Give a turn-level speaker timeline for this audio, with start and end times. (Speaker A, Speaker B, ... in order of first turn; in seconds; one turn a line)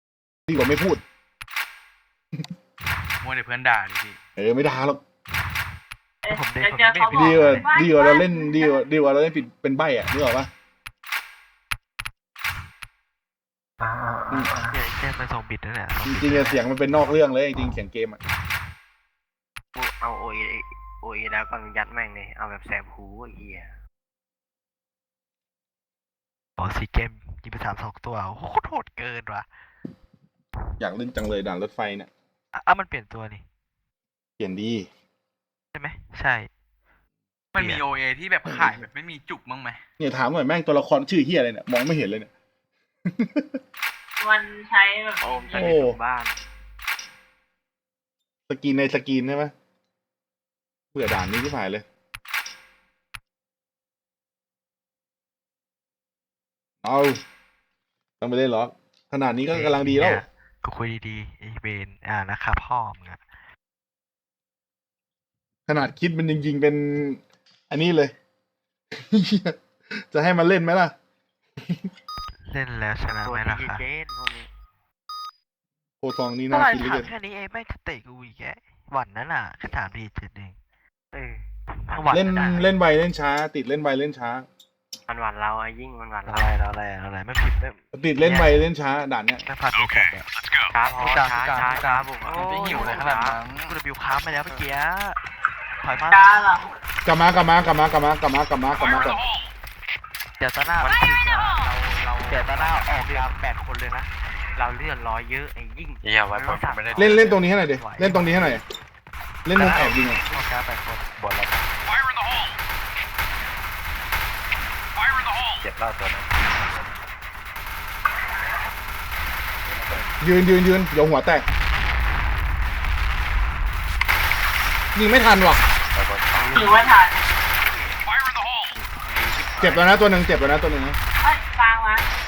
Speaker A: 0.5-1.0
Speaker B: 3.2-4.2
Speaker A: 4.4-5.0
Speaker C: 6.2-8.9
Speaker D: 6.3-7.7
Speaker A: 7.5-10.5
Speaker E: 13.8-14.8
Speaker D: 14.7-16.7
Speaker A: 16.0-18.2
Speaker F: 19.8-23.7
Speaker D: 26.6-29.5
Speaker A: 30.8-32.1
Speaker D: 32.5-33.5
Speaker A: 34.4-34.9
Speaker D: 35.7-36.5
Speaker B: 37.5-39.8
Speaker A: 38.5-38.8
Speaker A: 40.0-42.3
Speaker A: 43.1-43.5
Speaker C: 44.2-45.7
Speaker F: 45.2-46.4
Speaker A: 45.5-46.0
Speaker A: 48.5-49.5
Speaker A: 50.9-51.9
Speaker A: 56.8-57.2
Speaker A: 58.2-60.2
Speaker D: 59.5-63.2
Speaker A: 65.7-68.1
Speaker A: 69.0-70.9
Speaker D: 72.5-73.9
Speaker F: 73.1-74.5
Speaker A: 76.0-77.1
Speaker D: 76.5-80.6
Speaker F: 81.1-82.2
Speaker D: 81.8-82.8
Speaker A: 82.1-84.5
Speaker F: 85.1-86.5
Speaker D: 86.3-88.6
Speaker A: 87.9-89.5
Speaker F: 88.2-88.5
Speaker D: 89.5-90.3
Speaker F: 90.7-93.4
Speaker D: 91.0-95.2
Speaker B: 92.2-93.8
Speaker D: 95.8-96.5
Speaker C: 96.1-96.6
Speaker A: 97.0-99.2
Speaker D: 100.4-101.7
Speaker F: 100.8-103.3
Speaker D: 102.3-104.1
Speaker F: 104.5-106.7
Speaker E: 106.0-107.4
Speaker D: 106.5-108.6
Speaker A: 107.0-108.6
Speaker A: 109.5-110.2
Speaker D: 109.5-111.1
Speaker E: 111.2-111.7
Speaker E: 115.6-117.0
Speaker E: 119.6-120.1
Speaker A: 120.2-121.5
Speaker A: 125.0-125.6
Speaker E: 125.9-126.8
Speaker F: 126.3-128.0
Speaker C: 126.6-127.2
Speaker F: 128.7-129.9
Speaker A: 129.6-131.0
Speaker C: 131.2-132.1